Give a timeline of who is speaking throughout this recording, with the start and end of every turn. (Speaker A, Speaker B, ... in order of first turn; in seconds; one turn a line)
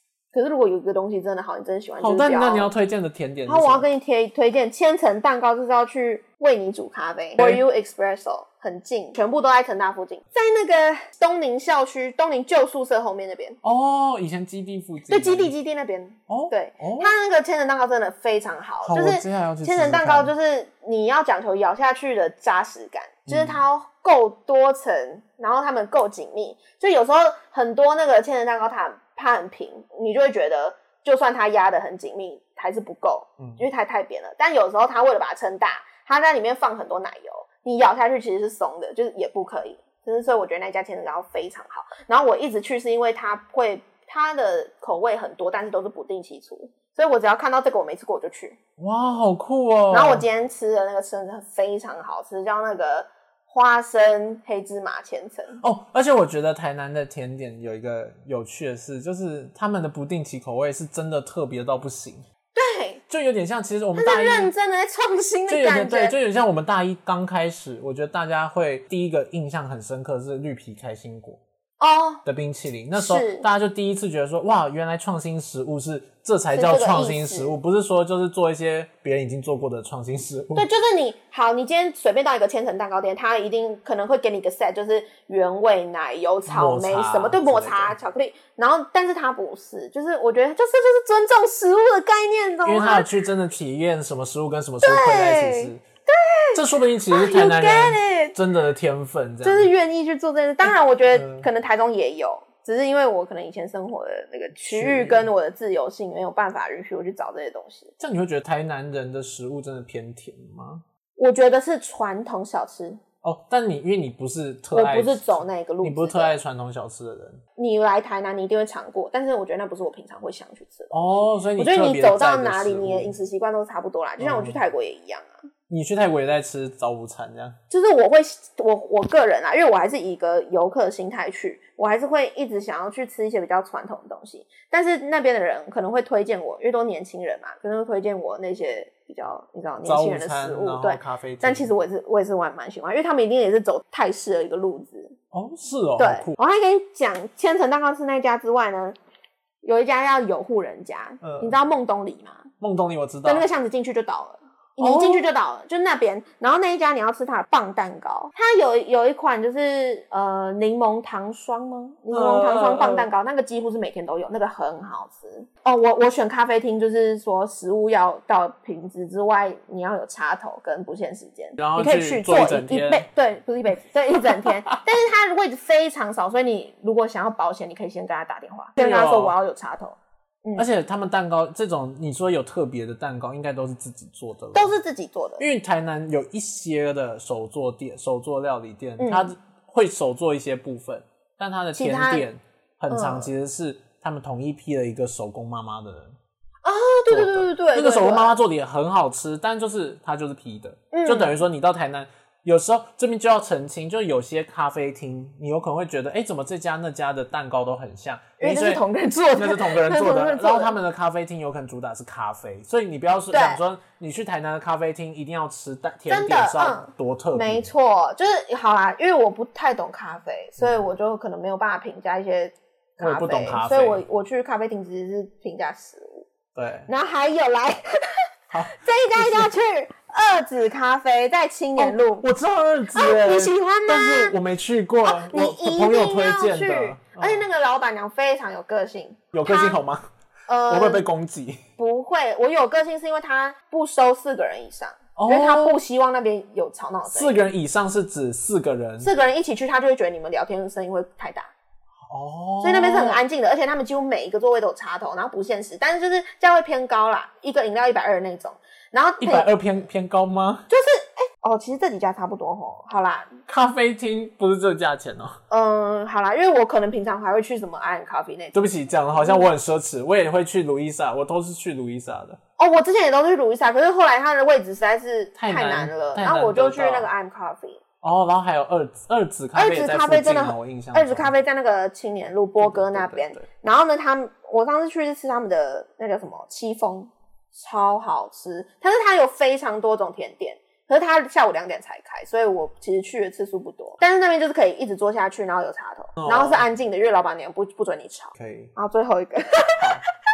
Speaker A: 0.3-2.7
Speaker B: 2.0-3.9
Speaker A: 3.5-13.6
Speaker B: 13.6-15.5
Speaker A: 15.1-48.6
Speaker B: 16.3-17.1
Speaker B: 18.8-20.3
Speaker B: 23.3-23.6
Speaker B: 33.4-33.6
Speaker B: 48.8-50.2
Speaker A: 49.9-55.6
Speaker B: 55.6-62.2
Speaker A: 62.5-63.0
Speaker B: 63.1-64.5
Speaker A: 64.0-66.2
Speaker B: 65.5-71.4
Speaker A: 71.8-72.2
Speaker B: 72.2-80.7
Speaker A: 73.0-73.5
Speaker A: 76.5-77.6
Speaker A: 80.5-93.1
Speaker B: 86.5-88.0
Speaker B: 92.7-95.8
Speaker A: 94.8-98.4
Speaker B: 96.5-99.7
Speaker A: 99.4-107.9
Speaker B: 100.7-101.5
Speaker B: 104.6-105.3
Speaker B: 108.0-110.8
Speaker A: 111.2-113.0
Speaker B: 113.2-117.4
Speaker A: 114.7-116.4
Speaker A: 117.6-125.4
Speaker B: 120.9-123.2
Speaker B: 124.2-124.6
Speaker B: 125.7-127.6
Speaker A: 127.7-145.2
Speaker B: 139.8-141.7
Speaker B: 145.3-146.4
Speaker A: 146.0-149.0
Speaker A: 149.6-152.5
Speaker B: 151.2-151.6
Speaker B: 152.6-153.5
Speaker A: 153.2-180.7
Speaker B: 154.8-155.3
Speaker B: 162.1-163.1
Speaker B: 171.6-173.1
Speaker B: 178.8-179.3
Speaker B: 180.6-184.8
Speaker A: 184.5-185.4
Speaker B: 185.4-196.2
Speaker A: 189.0-189.3
Speaker A: 191.8-192.3
Speaker A: 192.9-193.3
Speaker A: 196.6-198.4
Speaker B: 197.1-208.8
Speaker A: 200.9-201.3
Speaker A: 208.4-210.8
Speaker B: 209.4-217.7
Speaker A: 213.3-213.6
Speaker A: 216.1-226.3
Speaker B: 220.6-220.8
Speaker B: 223.0-224.0
Speaker B: 226.6-226.9
Speaker A: 226.9-232.3
Speaker B: 228.5-229.5
Speaker B: 231.8-237.5
Speaker A: 232.9-234.4
Speaker A: 235.0-239.8
Speaker B: 239.3-240.1
Speaker A: 240.5-241.1
Speaker B: 240.7-241.6
Speaker A: 241.8-247.5
Speaker B: 245.2-245.8
Speaker B: 247.1-249.1
Speaker A: 249.0-251.5
Speaker B: 252.1-253.2
Speaker A: 252.6-259.5
Speaker B: 259.2-260.7
Speaker A: 260.7-263.3
Speaker B: 263.5-265.4
Speaker A: 265.5-268.6
Speaker B: 268.5-272.4
Speaker A: 269.2-269.5
Speaker A: 272.6-277.8
Speaker B: 275.4-277.1
Speaker B: 278.0-281.3
Speaker A: 279.6-299.9
Speaker B: 282.6-283.5
Speaker B: 296.2-296.7
Speaker B: 298.4-298.7
Speaker B: 299.8-300.0